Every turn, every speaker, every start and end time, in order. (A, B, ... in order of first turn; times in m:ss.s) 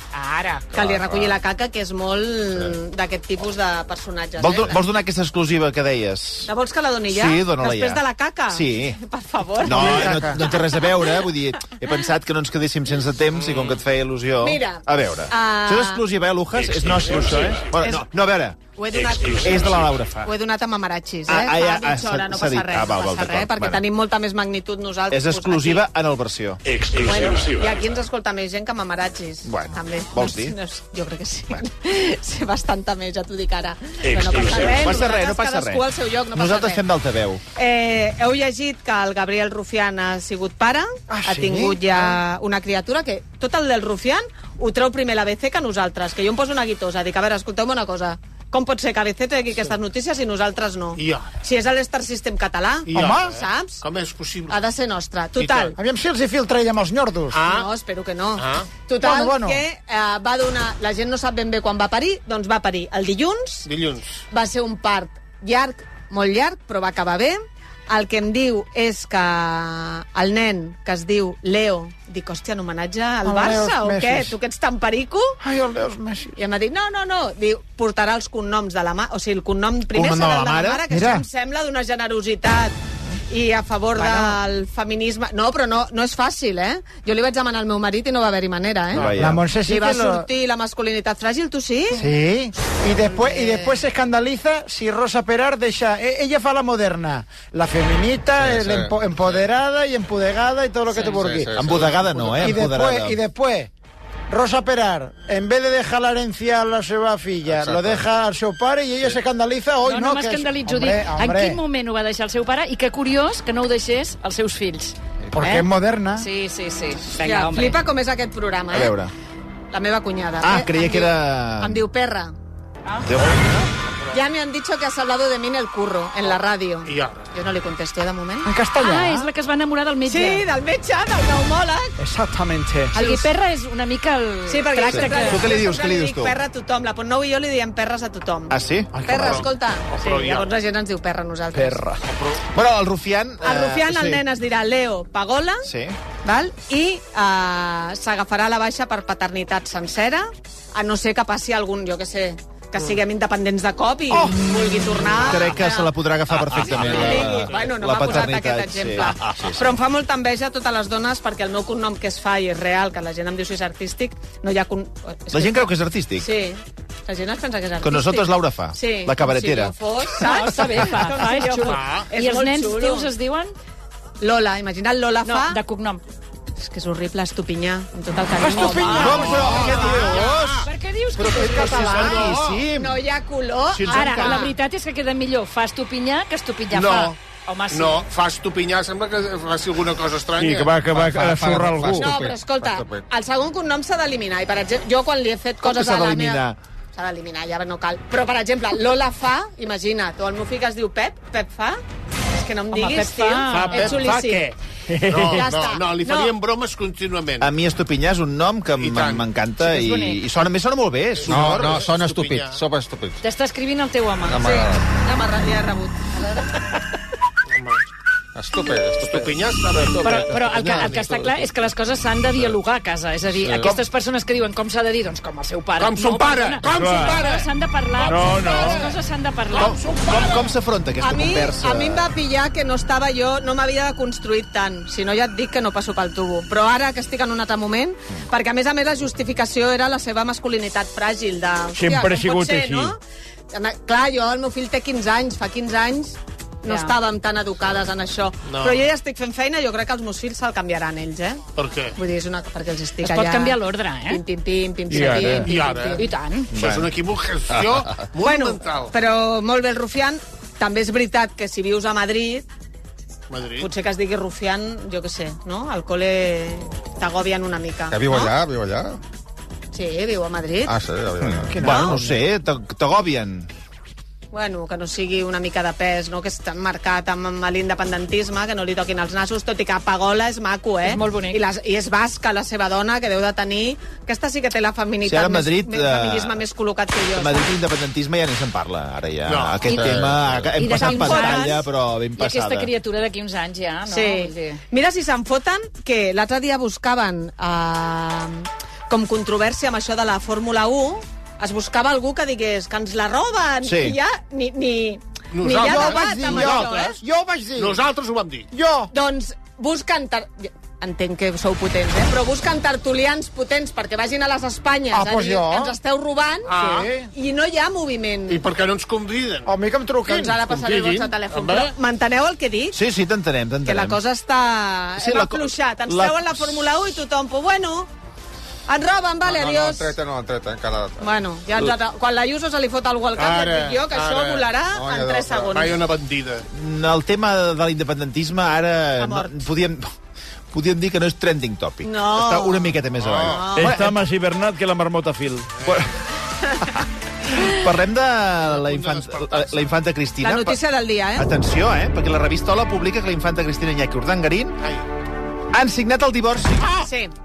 0:00.1-0:00.7 A
0:00.7-0:04.8 B
0:04.4-0:06.5 C
0:06.5-0:11.1 B
0:07.1-0:09.0 C
0:09.6-0:18.6 C
0:09.6-0:10.4 D
0:13.4-0:13.8 E
0:14.4-0:16.0 B
0:16.9-0:17.3 E
0:17.6-0:18.1 B
0:18.7-0:25.8 B
0:19.2-0:20.3 C
0:21.3-0:23.8 C
0:25.1-0:26.6 C
0:27.0-0:36.8 B
0:29.4-0:30.6 C
0:34.2-0:37.4 C
0:37.6-0:53.8 B
0:41.1-0:42.1 D
0:51.0-0:51.3 E
0:52.9-0:54.6 E
0:52.9-0:53.3 D
0:54.5-0:55.8 B
0:55.4-0:55.7 E
0:55.8-0:57.4 D
0:57.3-0:57.7 E
0:57.4-1:03.7 B
0:58.4-0:58.8 E
0:59.0-0:59.6 D
1:03.6-1:04.2 E
1:04.3-1:07.4 B
1:07.9-1:15.4 B
1:13.2-1:14.3 D
1:15.4-1:16.4 D
1:16.4-1:22.7 B
1:19.9-1:20.8 C
1:20.9-1:21.2 D
1:23.3-1:32.1 B
1:28.9-1:29.4 C
1:29.1-1:30.2 D
1:32.0-1:41.5 D
1:33.1-1:33.8 B
1:38.4-1:39.4 F
1:41.0-1:42.6 F
1:41.5-1:43.2 C
1:42.4-1:43.7 D
1:44.3-1:51.6 D
1:47.4-1:48.0 F
1:49.8-1:55.0 A
1:55.3-1:56.3 D
1:55.4-1:55.6 B
1:56.2-1:57.8 A
1:57.2-1:58.9 B
1:58.7-1:59.1 C
1:59.7-2:02.3 B
2:00.4-2:01.8 C
2:03.0-2:03.7 C
2:04.1-2:08.5 B
2:06.8-2:07.2 E
2:08.4-2:09.3 D
2:08.8-2:10.5 A
2:10.1-2:11.9 B
2:12.0-2:12.9 D
2:12.9-2:13.3 B
2:12.9-2:15.5 A
2:14.5-2:21.8 B
2:14.9-2:16.4 C
2:18.5-2:19.4 C
2:18.9-2:19.4 D
2:19.2-2:20.5 E
2:21.5-2:22.0 D
2:22.0-2:22.4 E
2:22.5-2:24.2 C
2:23.4-2:25.7 B
2:25.6-2:26.0 C
2:26.2-2:35.9 B
2:35.2-2:39.8 C
2:36.3-2:38.2 E
2:36.5-2:53.1 B
2:45.3-2:46.3 C
2:47.8-2:49.8 C
2:50.2-2:53.5 A
2:51.6-2:52.1 E
2:54.2-2:55.6 B
2:55.2-2:56.0 A
2:56.6-3:00.3 B
2:58.4-2:59.9 D
2:58.5-3:03.0 C
2:59.0-3:00.6 E
3:00.6-3:02.2 A
3:01.2-3:02.1 D
3:01.6-3:02.6 E
3:01.7-3:04.5 B
3:03.7-3:04.5 C
3:03.9-3:08.1 A
3:06.7-3:07.2 E
3:07.7-3:10.9 E
3:10.4-3:12.1 G
3:10.9-3:13.0 F
3:11.9-3:21.8 B
3:15.6-3:16.6 C
3:22.3-3:24.5 B
3:22.7-3:24.1 A
3:23.5-3:24.5 E
3:24.9-3:25.4 G
3:25.1-3:27.5 E
3:25.2-3:26.3 B
3:27.4-3:31.9 C
3:28.8-3:29.2 E
3:29.6-3:30.2 A
3:31.2-3:32.6 E
3:31.2-3:33.2 F
3:33.2-3:34.6 A
3:34.2-3:34.8 F
3:34.4-3:36.2 B
3:37.5-3:37.8 E
3:38.3-3:41.0 F
3:39.0-3:41.4 E
3:40.0-3:49.8 A
3:43.3-3:43.8 F
3:45.8-3:47.5 E
3:46.6-3:47.3 G
3:48.0-3:48.9 E
3:48.0-3:48.8 G
3:49.5-3:50.5 E
3:49.5-3:52.1 C
3:51.0-4:03.0 B
4:01.7-4:02.9 G
4:03.5-4:11.4 B
4:06.6-4:06.9 A
4:08.4-4:08.8 E
4:11.6-4:12.0 E
4:11.9-4:16.1 B
4:13.0-4:14.2 A
4:14.9-4:15.4 G
4:15.2-4:16.0 E
4:16.0-4:16.5 A
4:16.5-4:16.9 C
4:16.5-4:18.9 E
4:18.2-4:22.4 B
4:23.3-4:23.7 E
4:23.6-4:28.3 B
4:27.9-4:29.0 F
4:29.7-4:30.7 B
4:30.6-4:31.7 F
4:31.2-4:33.5 C
4:31.6-4:32.1 D
4:31.6-4:32.0 B
4:34.3-4:47.4 B
4:40.8-4:41.4 A
4:45.0-4:46.4 C
4:47.1-4:52.7 C
4:49.2-4:49.7 E
4:49.6-4:50.6 F
4:50.6-4:51.6 A
4:50.7-4:51.6 B
4:52.2-4:54.6 A
4:53.9-5:07.0 B
5:03.6-5:04.0 C
5:05.3-5:06.9 E
5:05.6-5:07.8 D
5:07.6-5:08.5 E
5:08.5-5:08.9 D
5:08.9-5:16.6 B
5:14.9-5:15.7 D
5:16.5-5:16.9 E
5:16.6-5:17.1 D
5:17.1-5:18.4 B
5:18.3-5:19.5 E
5:19.4-5:20.4 D
5:20.1-5:22.8 B
5:20.4-5:21.7 E
5:22.7-5:24.0 C
5:23.6-5:27.9 B
5:25.0-5:26.6 C
5:28.7-5:29.9 B
5:29.2-5:31.1 F
5:31.0-5:35.8 B
5:33.2-5:34.5 E
5:34.7-5:35.6 F
5:35.5-5:36.5 E
5:36.5-5:39.9 C
5:39.0-5:39.4 B
5:40.5-5:44.0 C
5:41.8-5:43.8 B
5:43.0-5:43.3 E
5:43.5-5:45.5 G
5:45.6-5:45.9 E
5:45.6-5:45.9 C
5:46.4-5:46.8 B
5:47.3-5:50.6 C
5:48.4-5:49.7 E
5:50.2-5:51.3 B
5:51.1-5:54.6 C
5:55.5-5:56.7 C
5:56.7-5:57.1 B